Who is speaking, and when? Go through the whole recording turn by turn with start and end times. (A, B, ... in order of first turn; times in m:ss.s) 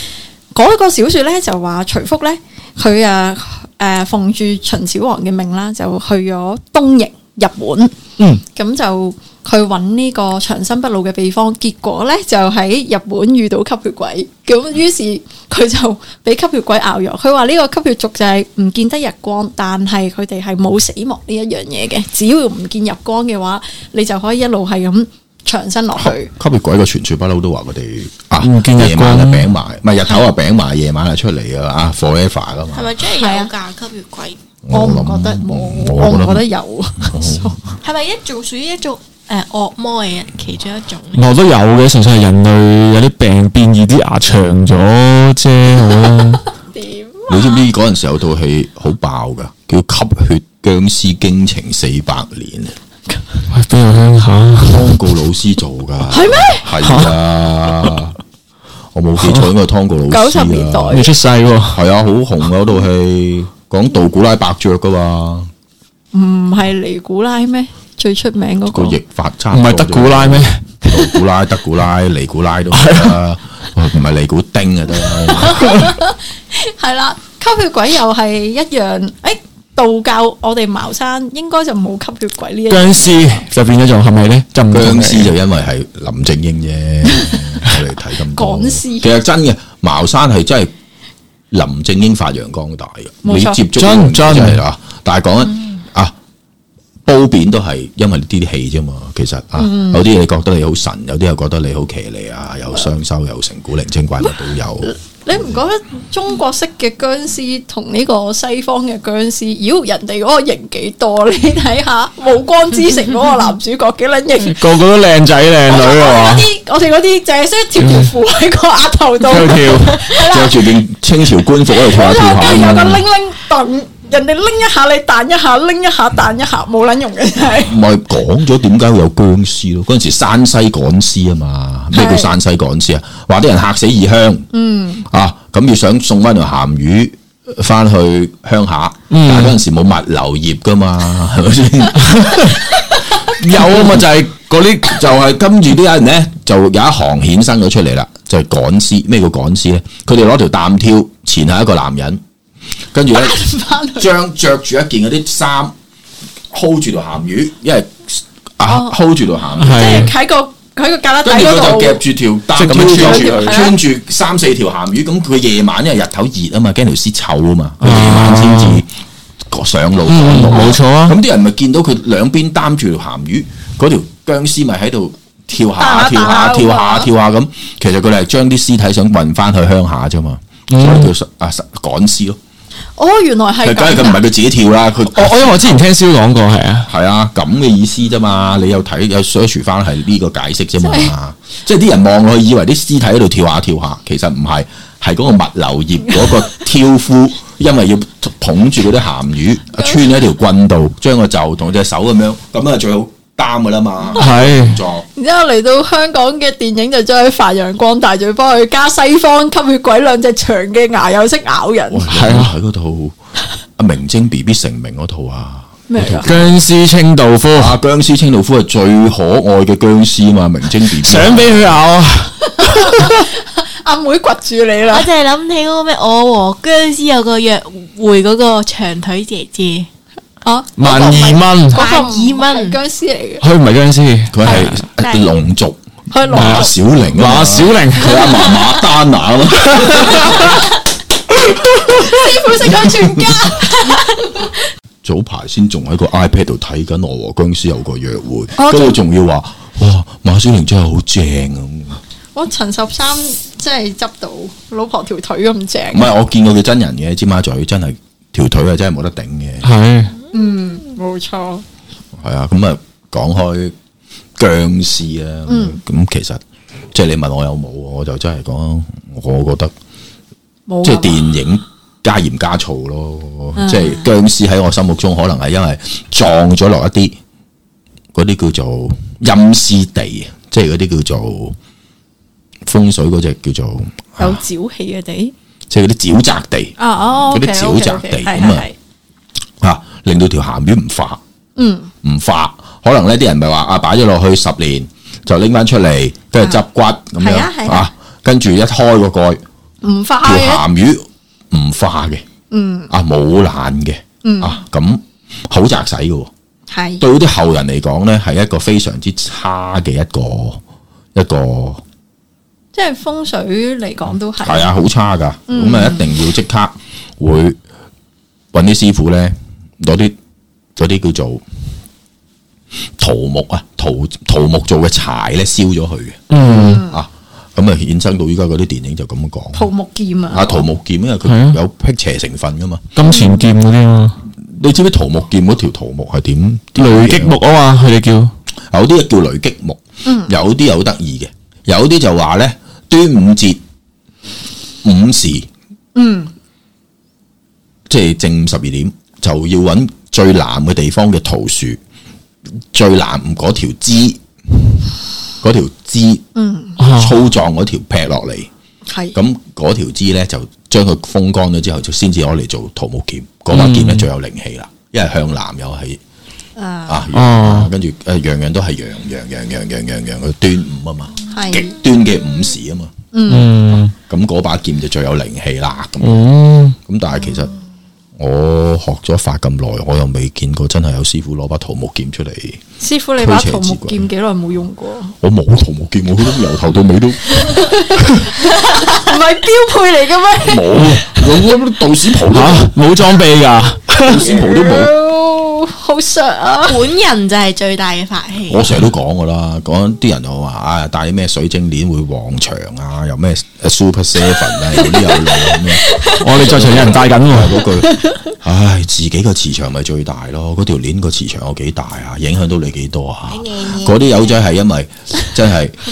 0:00.5-0:26.3 A
0:26.0-0:32.9 B
0:28.4-0:29.5 C
0:32.7-0:34.4 D
0:33.1-0:33.5 A
0:34.6-0:36.4 B
0:34.7-0:37.8 A
0:37.0-0:37.6 B
0:37.8-0:41.3 D
0:41.1-0:46.4 C
0:46.7-0:47.6 A
0:47.3-0:52.8 B
0:53.5-0:55.0 C
0:54.6-0:58.2 B
0:56.1-0:56.7 A
0:56.8-0:57.1 C
0:58.9-1:01.0 B
0:59.2-0:59.5 C
1:00.1-1:01.1 A
1:00.9-1:01.8 C
1:01.7-1:05.5 B
1:06.1-1:09.0 A
1:08.7-1:15.9 B
1:09.5-1:11.0 C
1:12.7-1:13.2 C
1:15.2-1:23.4 A
1:22.7-1:25.3 C
1:24.7-1:30.7 B
1:28.3-1:29.1 A
1:31.5-1:36.1 B
1:33.2-1:33.6 A
1:33.7-1:34.6 C
1:37.0-1:44.9 B
1:39.6-1:40.0 A
1:44.8-1:54.8 A
1:54.4-1:56.5 C
1:55.7-2:00.7 A
1:57.8-1:58.1 C
1:59.2-2:00.0 C
2:00.1-2:03.0 B
2:01.7-2:07.8 A
2:07.6-2:14.5 B
2:11.9-2:12.3 A
2:14.5-2:15.0 A
2:15.0-2:32.2 B
2:19.1-2:19.6 C
2:23.4-2:24.3 C
2:32.9-2:33.4 B
2:33.1-2:34.1 A
2:34.0-2:35.7 B
2:36.5-2:40.0 B
2:38.6-2:39.0 A
2:39.6-2:40.1 C
2:39.7-2:42.0 A
2:41.2-2:48.9 B
2:42.5-2:43.6 C
2:42.7-2:43.8 A
2:47.8-2:48.8 C
2:49.5-3:02.4 B
2:50.0-2:51.2 C
2:55.8-2:57.1 A
3:00.7-3:01.1 C
3:03.0-3:04.2 A
3:03.6-3:05.8 B
3:05.1-3:06.9 C
3:06.8-3:25.0 B
3:10.8-3:11.1 A
3:24.1-3:24.8 C
3:24.2-3:24.5 A
3:25.1-3:32.1 A
3:31.9-3:33.2 B
3:32.1-3:32.5 C
3:33.8-3:36.5 B
3:35.9-3:36.4 A
3:36.2-3:37.7 C
3:37.5-3:41.8 B
3:40.9-3:43.2 C
3:42.5-3:45.1 A
3:44.9-3:49.9 D
3:50.4-3:53.4 A
3:50.8-3:51.8 C
3:51.7-3:52.8 D
3:53.4-3:54.8 C
3:54.3-3:55.8 B
3:54.4-3:55.3 A
3:56.1-3:56.8 A
3:56.3-4:00.6 B
3:56.3-3:58.6 C
3:59.7-4:00.4 C
4:01.5-4:03.5 B
4:01.9-4:04.5 A
4:05.0-4:12.0 B
4:08.6-4:09.0 A
4:12.3-4:16.0 A
4:15.9-4:19.7 B
4:19.6-4:20.1 C
4:20.3-4:21.6 A
4:22.2-4:23.7 B
4:24.4-4:26.4 B
4:25.5-4:25.8 A
4:26.9-4:29.7 B
4:30.7-4:31.3 A
4:30.8-4:37.2 B
4:33.6-4:34.1 A
4:38.1-4:41.6 B
4:42.7-4:44.4 B
4:44.2-4:45.3 A
4:45.7-4:46.8 B
4:46.8-4:48.7 A
4:47.3-4:48.7 B
4:49.6-4:51.2 B
4:51.6-4:51.9 A
4:52.0-4:59.4 B
4:57.2-4:57.9 A
4:59.8-5:00.6 A
5:00.2-5:02.2 B
5:02.5-5:02.9 A
5:02.9-5:06.3 B
5:04.2-5:04.6 A
5:06.7-5:07.0 A
5:07.0-5:10.6 B
5:11.1-5:11.8 B
5:12.7-5:14.7 A
5:14.4-5:17.6 B
5:15.5-5:16.1 A
5:18.5-5:20.2 B
5:20.8-5:21.4 B
5:23.0-5:29.7 B
5:26.3-5:26.8 C
5:26.4-5:27.0 A
5:29.5-5:30.6 A
5:30.3-5:32.9 B
5:31.2-5:31.6 C
5:32.9-5:34.2 C
5:33.0-5:33.4 A
5:34.3-5:37.4 B
5:36.8-5:38.3 C
5:38.7-5:43.6 B
5:40.0-5:40.3 A
5:44.8-5:45.5 B
5:45.9-5:46.3 A
5:47.9-5:51.8 B
5:52.7-5:54.8 B
5:55.4-5:56.2 B
5:56.3-5:56.8 A
5:56.8-5:57.2 C
5:56.9-5:58.5 B
5:58.9-5:59.2 A
5:59.1-6:06.0 B
6:03.5-6:04.1 C
6:06.6-6:07.0 A
6:06.9-6:12.9 B
6:07.1-6:07.7 C
6:11.3-6:11.7 A
6:13.1-6:13.5 A
6:13.3-6:13.9 C
6:14.1-6:16.3 B
6:16.0-6:16.8 C
6:16.8-6:17.5 B
6:18.2-6:22.6 B
6:22.8-6:25.1 A
6:23.2-6:24.1 B
6:25.2-6:28.3 B
6:27.3-6:31.2 A
6:30.4-6:32.8 B
6:32.3-6:34.3 C
6:34.1-6:34.9 B
6:34.1-6:36.8 A
6:36.6-6:38.7 D
6:38.5-6:55.8 B
6:45.2-6:46.2 A
6:46.2-6:47.6 C
6:47.8-6:48.2 A
6:53.3-6:54.3 D